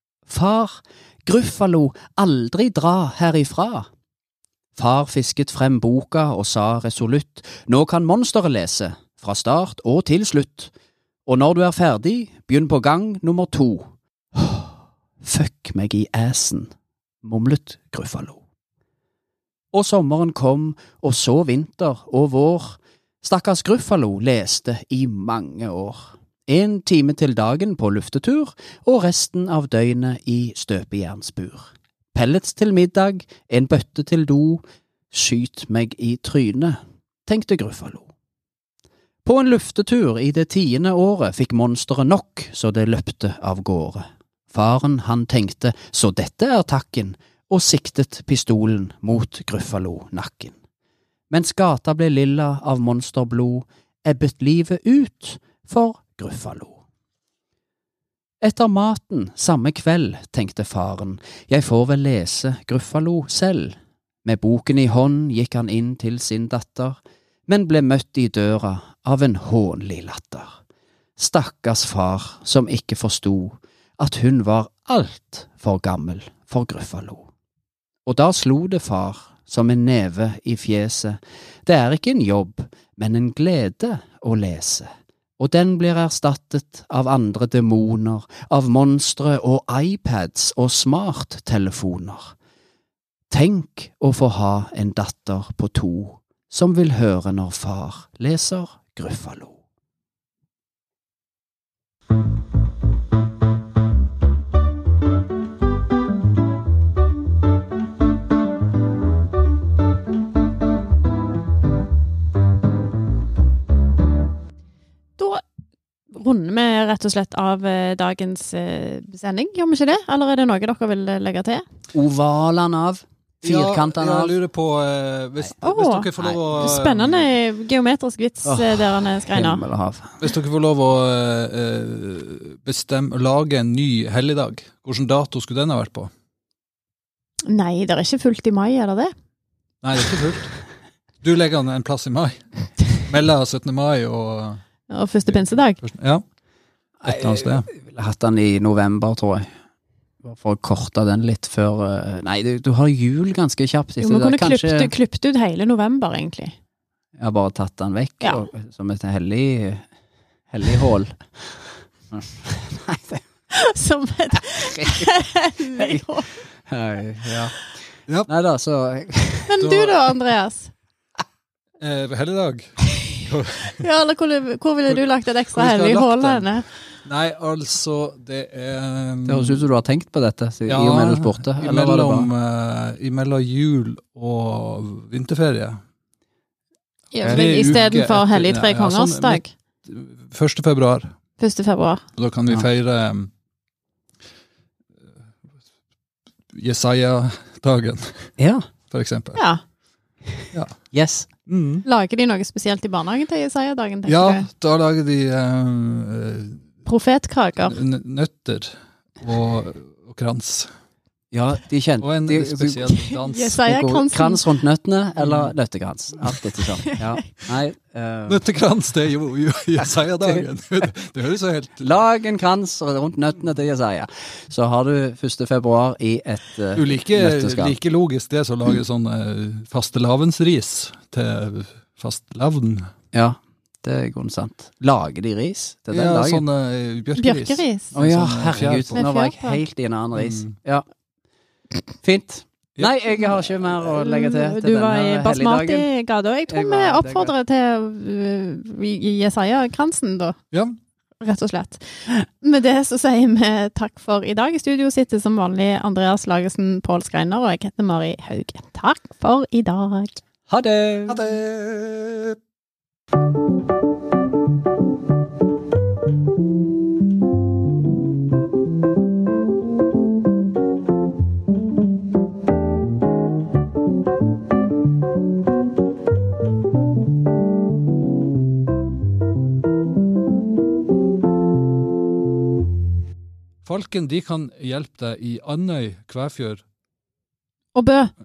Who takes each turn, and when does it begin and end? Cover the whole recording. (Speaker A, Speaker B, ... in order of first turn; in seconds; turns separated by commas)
Speaker A: 0.3-3.9, Speaker A: 4.8-10.7, Speaker A: 11.2-16.7, Speaker A: 17.2-18.4, Speaker A: 19.7-38.1, Speaker A: 39.2-50.6, Speaker A: 51.3-56.8, Speaker A: 58.4-70.6, Speaker A: 71.2-77.3, Speaker A: 78.1-92.3, Speaker A: 93.3-99.6, Speaker B: 116.1-121.6, Speaker A: 121.9-124.3, Speaker C: 123.4-127.2, Speaker B: 125.6-129.6, Speaker A: 128.4-130.1, Speaker C: 130.2-136.1, Speaker B: 137.4-139.1, Speaker C: 139.8-140.6, Speaker C: 141.2-144.6, Speaker B: 144.9-145.8, Speaker C: 145.3-146.2, Speaker A: 147.0-149.5, Speaker C: 147.1-147.7, Speaker A: 150.2-154.9, Speaker B: 154.0-156.6, Speaker A: 157.2-159.9, Speaker A: 160.5-163.2, Speaker B: 163.5-166.3, Speaker A: 164.7-165.1, Speaker A: 165.7-166.0, Speaker A: 166.6-167.6, Speaker A: 168.3-169.5, Speaker B: 169.5-170.7, Speaker C: 169.6-170.0, Speaker C: 171.8-173.8, Speaker B: 173.8-176.7, Speaker C: 175.5-176.5, Speaker C: 177.1-179.6, Speaker A: 179.2-182.3, Speaker C: 180.7-185.8, Speaker B: 187.1-189.5, Speaker C: 187.2-191.1, Speaker B: 191.4-192.0, Speaker C: 192.2-193.3, Speaker C: 196.5-198.3, Speaker A: 198.4-198.6, Speaker C: 198.9-199.4, Speaker B: 199.4-199.6, Speaker C: 200.5-200.8, Speaker A: 200.9-201.3, Speaker C: 201.5-201.8, Speaker B: 201.8-204.4, Speaker C: 204.1-206.6, Speaker B: 206.9-207.8, Speaker C: 207.6-210.7, Speaker A: 211.3-212.9, Speaker C: 212.0-213.6, Speaker B: 213.1-214.4, Speaker A: 213.6-218.4, Speaker C: 215.2-215.5, Speaker C: 218.3-221.8, Speaker A: 221.8-227.8, Speaker C: 226.8-232.9, Speaker A: 233.1-236.4, Speaker C: 235.9-239.0, Speaker B: 237.2-237.9, Speaker A: 237.9-240.8, Speaker B: 238.9-239.6, Speaker C: 240.2-240.6, Speaker A: 242.0-245.9, Speaker B: 244.0-250.4, Speaker A: 246.5-247.3, Speaker B: 251.2-260.2, Speaker A: 260.5-261.2, Speaker C: 261.1-262.4, Speaker C: 283.6-286.6, Speaker B: 287.7-288.1